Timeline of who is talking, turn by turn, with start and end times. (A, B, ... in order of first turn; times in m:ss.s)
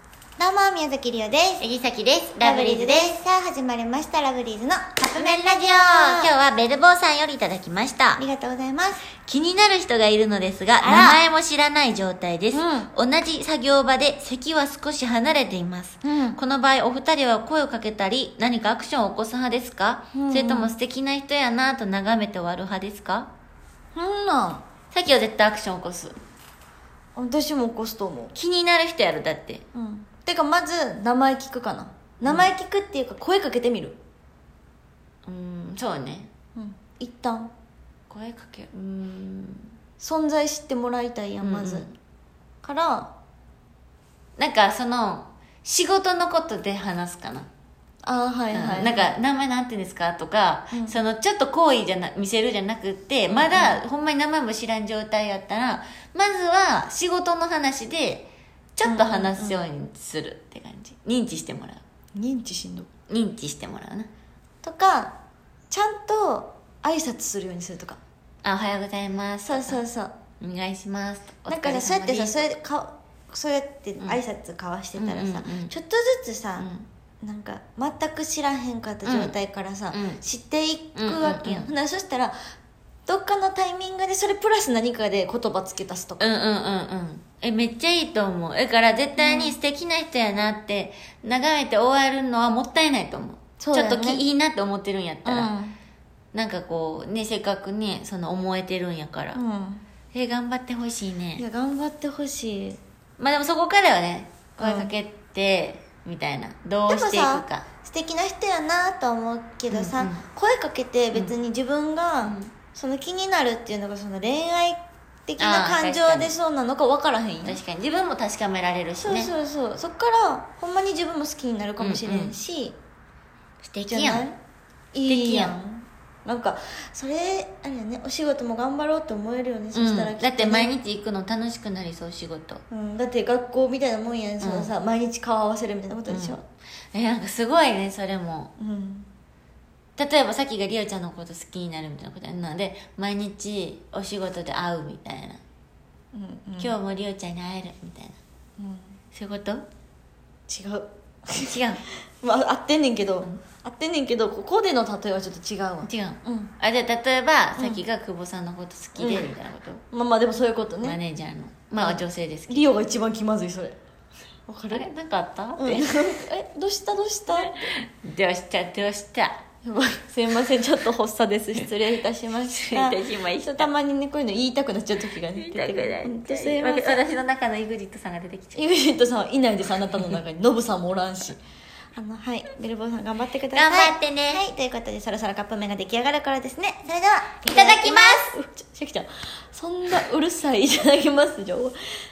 0:00.4-0:01.6 A
0:01.6-0:03.2 B
0:02.4-0:06.3 A
0:05.0-0:08.2 B
0:08.2-0:09.1 A
0:09.1-0:23.3 B
0:10.8-0:11.2 A
0:12.5-0:12.9 A
0:16.0-0:16.4 A
0:20.1-0:20.7 A
0:24.0-0:24.7 A
0:24.9-0:26.2 B
0:27.2-0:28.3 A
0:28.4-0:29.6 B
0:29.7-0:34.0 A
0:32.2-0:32.5 B
0:35.2-0:36.3 B
0:36.6-0:37.5 A
0:38.1-0:39.7 B
0:40.0-0:41.9 A
0:41.4-0:41.9 B
0:42.6-0:43.1 A
0:44.4-0:47.5 B
0:48.0-0:49.1 A
0:48.5-1:01.8 B
0:53.3-0:53.8 A
0:58.8-0:59.6 A
1:02.2-1:02.9 A
1:03.1-1:04.1 B
1:04.6-1:05.2 A
1:05.7-1:08.0 A
1:08.4-1:09.8 B
1:09.4-1:10.1 A
1:10.4-1:12.5 B
1:11.5-1:16.7 A
1:15.0-1:15.7 B
1:16.6-1:16.9 B
1:17.2-1:22.4 A
1:19.0-1:19.3 B
1:19.9-1:20.2 B
1:21.0-1:21.7 B
1:23.1-1:26.2 A
1:26.2-1:35.5 B
1:29.2-1:29.6 A
1:33.6-1:34.2 A
1:35.2-1:35.8 A
1:36.3-1:39.4 B
1:39.3-1:39.8 A
1:40.1-1:41.4 B
1:41.4-1:42.8 A
1:43.2-1:47.7 B
1:44.6-1:44.9 A
1:46.9-1:57.6 A
1:49.7-1:50.2 B
1:52.2-1:52.5 B
1:55.4-1:56.3 B
1:57.4-1:59.3 B
1:59.0-2:02.8 A
2:01.8-2:02.4 B
2:03.6-2:04.3 B
2:03.9-2:04.4 A
2:04.9-2:10.7 A
2:05.1-2:05.6 B
2:09.7-2:12.6 B
2:12.7-2:16.4 A
2:14.4-2:14.7 B
2:16.1-2:16.4 B
2:16.9-2:18.5 B
2:18.6-2:19.1 A
2:20.0-2:25.4 B
2:26.1-2:26.8 A
2:26.6-2:28.2 B
2:28.6-2:29.0 A
2:29.1-2:29.6 B
2:30.5-2:31.5 A
2:31.4-2:31.8 B
2:32.2-2:36.5 A
2:35.8-2:39.8 B
2:37.6-2:37.8 A
2:39.0-2:39.3 A
2:39.9-2:41.0 A
2:40.8-2:42.7 B
2:41.8-2:43.8 A
2:44.5-2:44.9 A
2:44.7-2:46.3 B
2:45.6-2:47.7 A
2:47.3-2:49.4 B
2:49.6-2:57.0 A
2:52.5-2:53.7 B
2:55.1-2:58.6 B
2:58.6-3:01.4 A
3:02.0-3:11.8 A
3:03.5-3:04.4 B
3:07.4-3:08.4 B